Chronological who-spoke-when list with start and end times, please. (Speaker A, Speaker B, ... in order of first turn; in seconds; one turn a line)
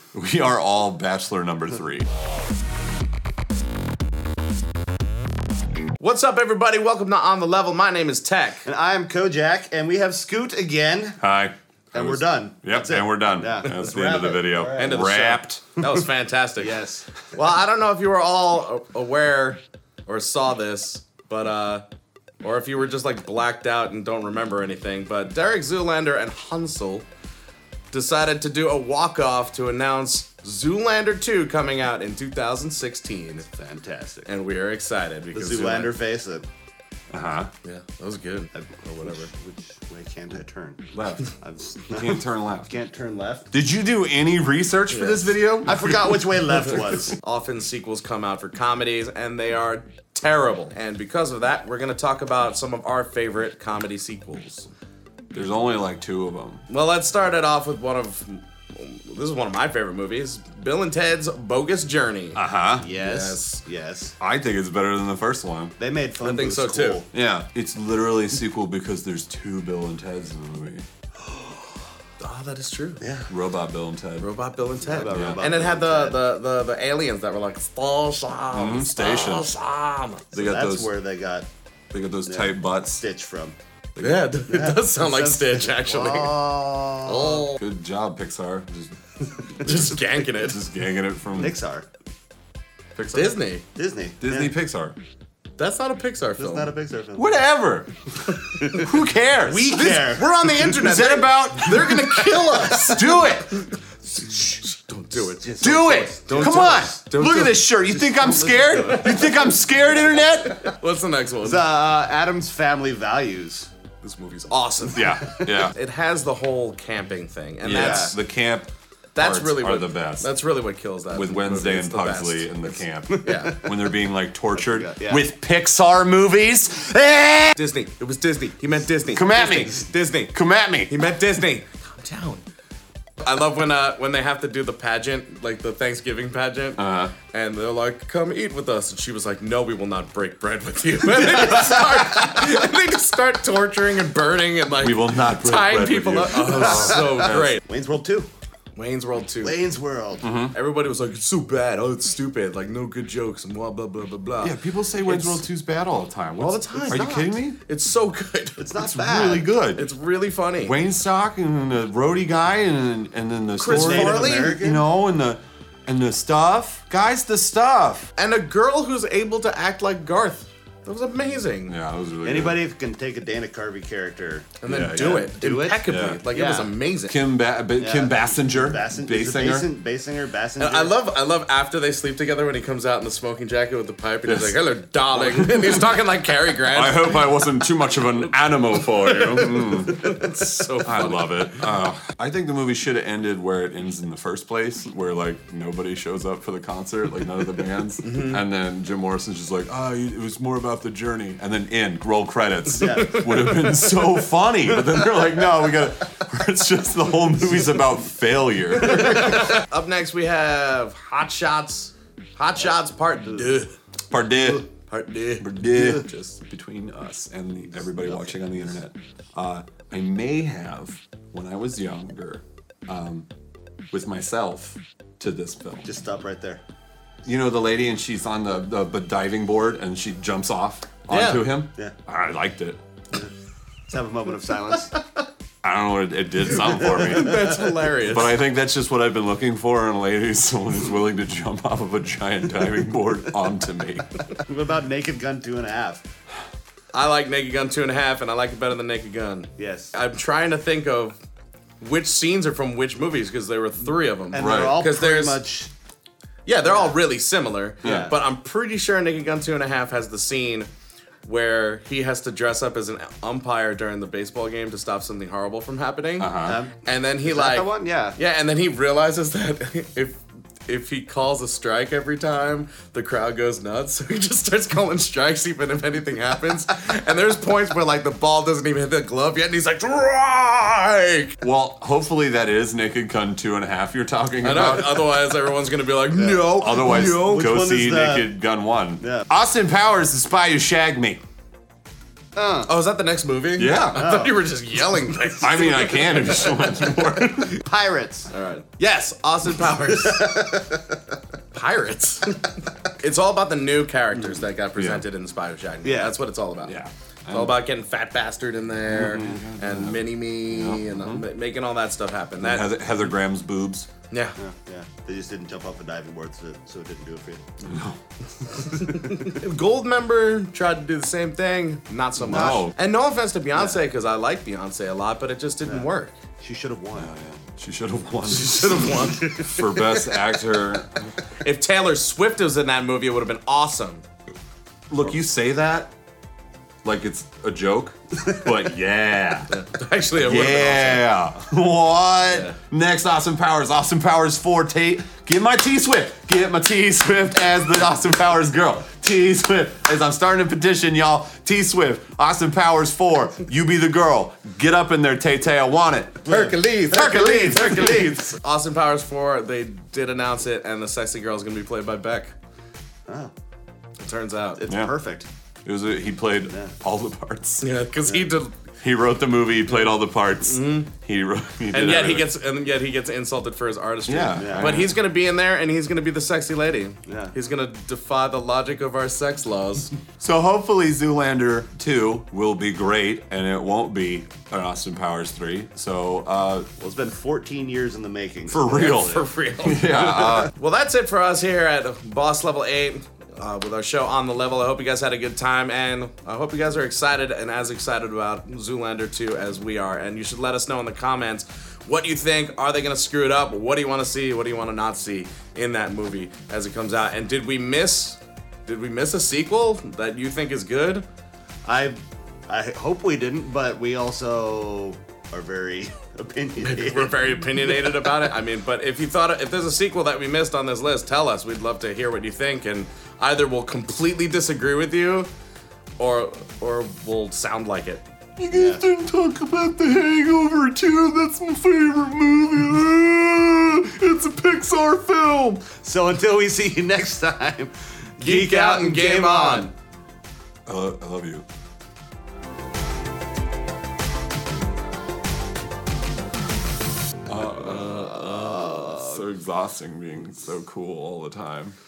Speaker A: 0.1-2.1
Speaker B: 6.0-8.7
Speaker C: 8.7-11.2
Speaker A: 11.2-15.6
Speaker C: 11.9-15.2
Speaker B: 14.8-16.8
Speaker C: 16.6-17.3
Speaker B: 17.3-21.8
Speaker B: 22.4-27.1
Speaker B: 27.9-33.5
Speaker C: 33.5-34.3
Speaker B: 34.3-35.9
Speaker C: 35.3-36.5
Speaker A: 37.1-37.5
Speaker B: 37.6-39.3
Speaker C: 38.5-43.5
Speaker A: 40.9-41.3
Speaker A: 41.9-42.7
Speaker A: 43.5-46.0
Speaker B: 44.9-45.4
Speaker C: 45.7-47.2
Speaker B: 47.0-54.7
Speaker A: 55.3-56.6
Speaker B: 56.7-62.4
Speaker A: 62.4-62.9
Speaker C: 62.8-64.2
Speaker B: 62.9-63.6
Speaker A: 64.2-65.8
Speaker C: 65.8-67.1
Speaker B: 66.2-67.0
Speaker A: 67.1-70.8
Speaker B: 72.2-73.0
Speaker C: 73.0-73.3
Speaker A: 73.3-74.3
Speaker B: 74.2-80.3
Speaker C: 74.8-76.2
Speaker A: 75.1-75.4
Speaker A: 78.5-79.5
Speaker C: 80.3-81.5
Speaker A: 80.3-80.9
Speaker A: 81.9-83.0
Speaker C: 82.2-83.6
Speaker A: 84.0-84.3
Speaker B: 84.0-86.5
Speaker C: 84.5-87.4
Speaker B: 87.0-87.6
Speaker A: 87.4-89.0
Speaker A: 89.5-91.6
Speaker B: 89.6-90.6
Speaker C: 91.3-91.9
Speaker B: 93.0-93.6
Speaker C: 93.1-94.5
Speaker A: 94.2-95.0
Speaker B: 95.6-96.7
Speaker C: 96.4-97.4
Speaker A: 97.2-99.9
Speaker B: 98.3-98.8
Speaker C: 98.6-98.9
Speaker C: 99.4-100.9
Speaker B: 99.6-109.4
Speaker A: 100.7-103.7
Speaker C: 102.5-102.8
Speaker C: 105.3-107.0
Speaker A: 105.6-110.6
Speaker C: 108.4-109.4
Speaker B: 110.4-111.7
Speaker C: 111.4-113.7
Speaker B: 114.0-118.2
Speaker A: 114.9-115.8
Speaker A: 117.6-120.3
Speaker C: 117.7-118.2
Speaker B: 119.2-123.7
Speaker A: 121.1-127.6
Speaker C: 123.1-123.8
Speaker C: 124.5-125.2
Speaker B: 127.5-130.4
Speaker A: 129.1-130.9
Speaker B: 130.9-132.5
Speaker B: 133.2-147.6
Speaker A: 136.8-137.1
Speaker A: 144.8-147.6
Speaker C: 146.6-148.3
Speaker B: 148.8-149.6
Speaker C: 149.4-150.3
Speaker A: 150.2-150.5
Speaker B: 150.5-155.4
Speaker A: 154.4-157.6
Speaker B: 156.4-158.6
Speaker C: 158.6-159.5
Speaker A: 158.8-159.9
Speaker B: 159.8-160.8
Speaker A: 160.6-168.1
Speaker B: 163.6-164.6
Speaker C: 163.7-164.8
Speaker B: 168.2-171.8
Speaker A: 171.7-172.6
Speaker C: 172.2-176.7
Speaker B: 174.6-177.2
Speaker A: 174.7-175.3
Speaker A: 175.9-176.2
Speaker A: 177.1-179.7
Speaker C: 177.8-181.0
Speaker B: 180.6-187.3
Speaker A: 184.3-186.0
Speaker A: 186.7-190.2
Speaker B: 188.8-191.6
Speaker A: 190.8-209.5
Speaker B: 198.0-198.4
Speaker C: 202.8-203.3
Speaker B: 202.8-203.6
Speaker B: 208.8-213.8
Speaker A: 214.1-214.7
Speaker B: 214.9-216.1
Speaker A: 215.4-223.3
Speaker C: 217.8-218.8
Speaker A: 223.9-225.9
Speaker C: 225.8-226.6
Speaker A: 227.2-232.8
Speaker B: 231.1-231.5
Speaker C: 233.9-235.0
Speaker A: 235.6-244.2
Speaker B: 236.7-238.3
Speaker C: 236.8-237.6
Speaker C: 244.5-246.0
Speaker B: 246.9-251.2
Speaker C: 249.6-249.9
Speaker B: 251.8-255.4
Speaker C: 254.3-255.7
Speaker A: 254.3-254.8
Speaker B: 256.5-260.7
Speaker C: 256.6-257.0
Speaker A: 257.8-258.1
Speaker C: 257.8-258.1
Speaker B: 261.3-281.4
Speaker A: 266.2-266.6
Speaker C: 266.4-268.2
Speaker A: 281.4-285.1
Speaker B: 284.4-287.5
Speaker C: 286.1-288.3
Speaker A: 286.5-291.2
Speaker C: 289.0-289.3
Speaker C: 292.4-292.7
Speaker B: 292.6-296.8
Speaker A: 293.6-294.1
Speaker C: 293.9-294.4
Speaker A: 295.4-297.6
Speaker C: 297.6-298.3
Speaker B: 298.3-300.5
Speaker C: 299.9-301.0
Speaker B: 301.5-306.8
Speaker A: 304.8-305.1
Speaker C: 305.8-306.2
Speaker A: 306.6-307.6
Speaker B: 307.3-312.7
Speaker A: 308.9-311.2
Speaker A: 312.4-313.9
Speaker B: 314.1-314.4
Speaker C: 314.4-317.5
Speaker A: 317.6-318.0
Speaker B: 318.6-326.2
Speaker C: 318.8-319.1
Speaker A: 322.2-322.8
Speaker C: 322.3-322.7
Speaker C: 325.6-327.1
Speaker A: 326.9-331.1
Speaker B: 328.3-330.0
Speaker B: 331.3-334.0
Speaker A: 334.9-335.9
Speaker A: 336.8-339.5
Speaker B: 339.5-341.1
Speaker A: 340.2-358.0
Speaker B: 342.3-342.6
Speaker C: 356.2-358.2
Speaker B: 356.3-362.3
Speaker C: 363.1-363.3
Speaker B: 364.0-364.6
Speaker C: 364.6-365.3
Speaker A: 365.6-367.6
Speaker C: 366.5-366.7
Speaker B: 367.6-368.6
Speaker C: 368.1-368.3
Speaker A: 368.8-372.3
Speaker B: 370.4-370.9
Speaker B: 371.7-380.0
Speaker A: 374.1-374.9
Speaker C: 374.4-374.8
Speaker C: 377.1-377.3
Speaker A: 380.2-386.7
Speaker C: 386.8-389.3
Speaker A: 388.5-390.5
Speaker B: 388.9-411.1
Speaker C: 411.7-417.6
Speaker B: 416.6-425.3
Speaker B: 426.0-428.0
Speaker A: 428.4-435.7
Speaker C: 428.5-428.8
Speaker C: 435.8-439.7
Speaker B: 438.2-439.7
Speaker A: 440.7-441.5
Speaker A: 447.3-451.8
Speaker B: 447.4-449.2